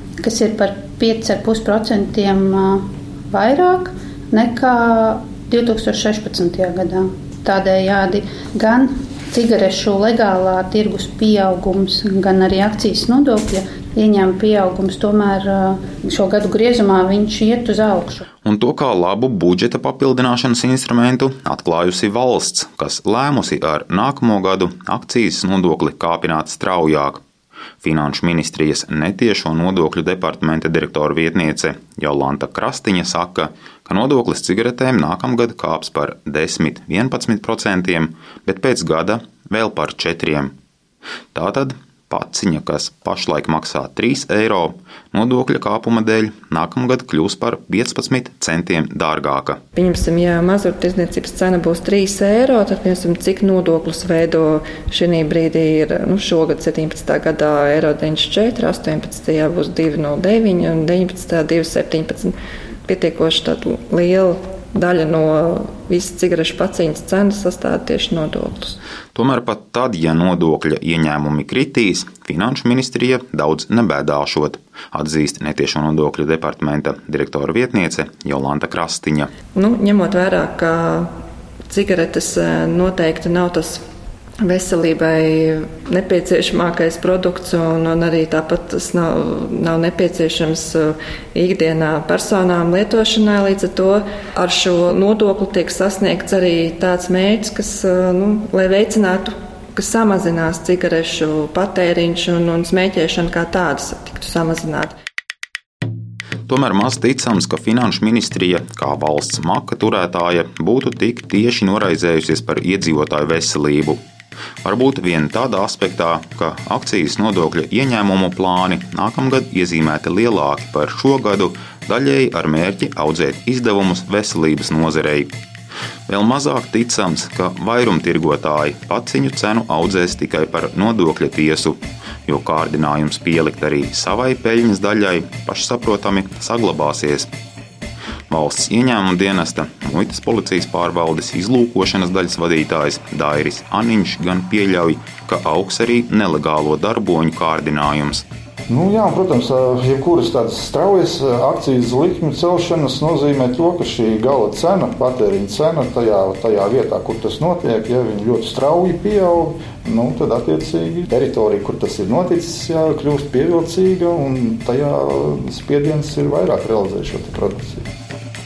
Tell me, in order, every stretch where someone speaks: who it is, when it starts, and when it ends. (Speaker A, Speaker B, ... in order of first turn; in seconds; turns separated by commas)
Speaker A: 0.2-18.2, Speaker B: 18.4-27.2, Speaker B: 27.8-40.5, Speaker B: 41.3-49.6, Speaker C: 49.8-62.3, Speaker C: 62.9-68.8, Speaker B: 69.1-79.3, Speaker C: 79.5-81.1, Speaker C: 81.7-83.8, Speaker C: 84.4-104.9, Speaker B: 106.5-114.0, Speaker B: 114.6-125.3, Speaker B: 126.1-137.3, Speaker B: 138.3-148.2, Speaker D: 148.7-167.8